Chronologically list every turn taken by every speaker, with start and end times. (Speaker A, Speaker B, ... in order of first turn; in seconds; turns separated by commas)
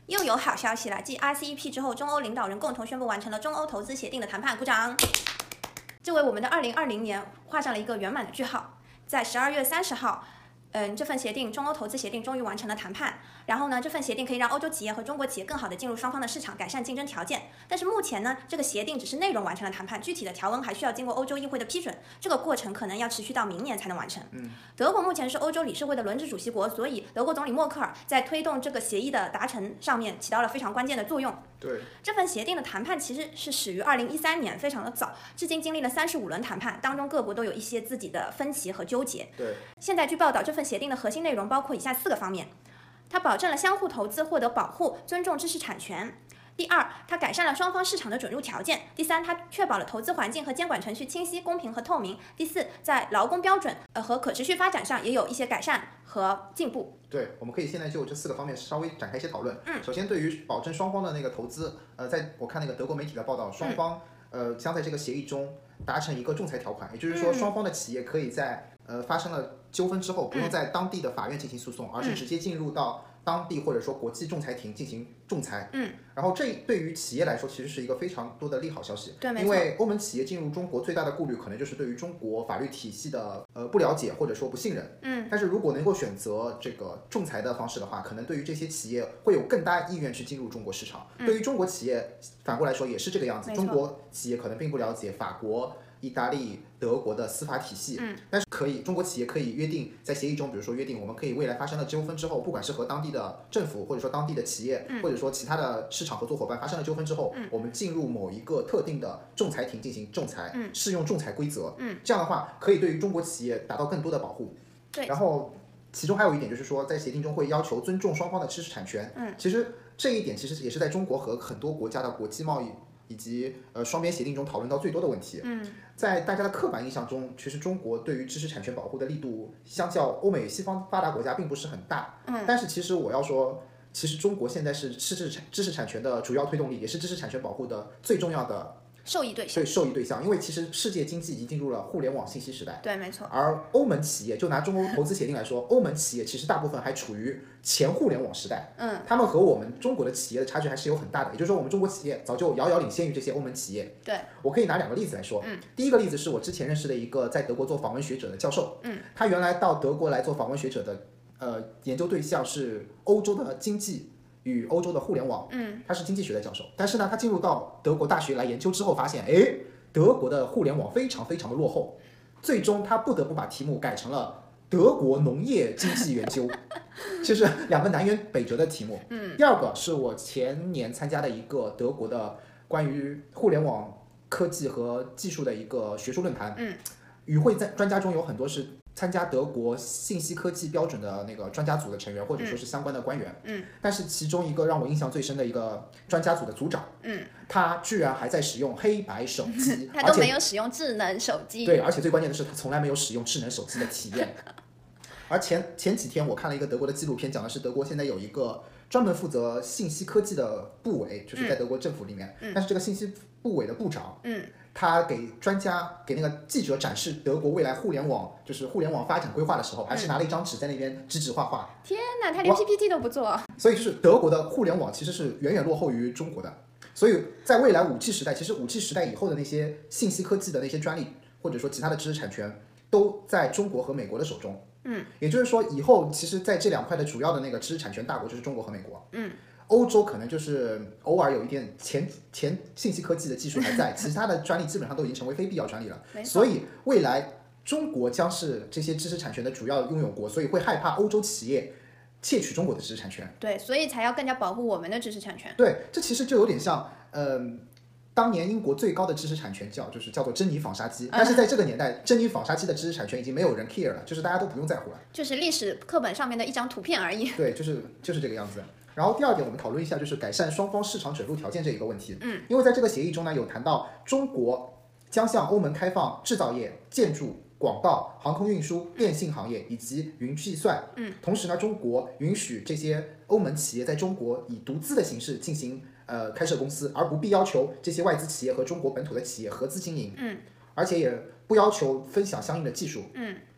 Speaker A: 0.1-5.1, Speaker A: 6.0-42.5, Speaker B: 24.3-24.6, Speaker B: 31.6-31.9, Speaker B: 39.4-39.6, Speaker A: 43.1-56.9, Speaker B: 57.1-114.6, Speaker A: 67.1-67.5, Speaker A: 75.7-76.0, Speaker A: 79.2-79.7, Speaker A: 85.0-85.3, Speaker A: 93.5-93.8, Speaker A: 111.8-112.0, Speaker B: 115.1-138.8, Speaker A: 125.4-125.8, Speaker A: 132.3-132.6, Speaker A: 139.1-139.7, Speaker B: 139.5-176.6, Speaker A: 142.8-143.3, Speaker A: 148.8-149.1, Speaker A: 165.5-165.8, Speaker B: 177.1-186.6, Speaker A: 179.1-179.4, Speaker B: 187.3-196.9, Speaker A: 193.4-193.7, Speaker A: 197.0-197.3, Speaker B: 197.5-200.4, Speaker A: 199.5-201.8, Speaker B: 201.6-204.4, Speaker B: 205.3-214.2, Speaker A: 214.2-214.5, Speaker B: 214.7-221.7, Speaker A: 221.8-223.5, Speaker B: 223.6-234.7, Speaker A: 234.8-235.1, Speaker B: 235.2-239.1, Speaker B: 239.7-253.3, Speaker A: 246.1-246.5, Speaker A: 253.4-255.6, Speaker B: 255.6-257.6, Speaker B: 258.2-265.0, Speaker A: 261.1-261.4, Speaker A: 265.1-267.5, Speaker B: 267.4-290.2, Speaker A: 272.2-272.5, Speaker A: 290.1-290.4, Speaker B: 290.8-293.1, Speaker A: 293.1-293.4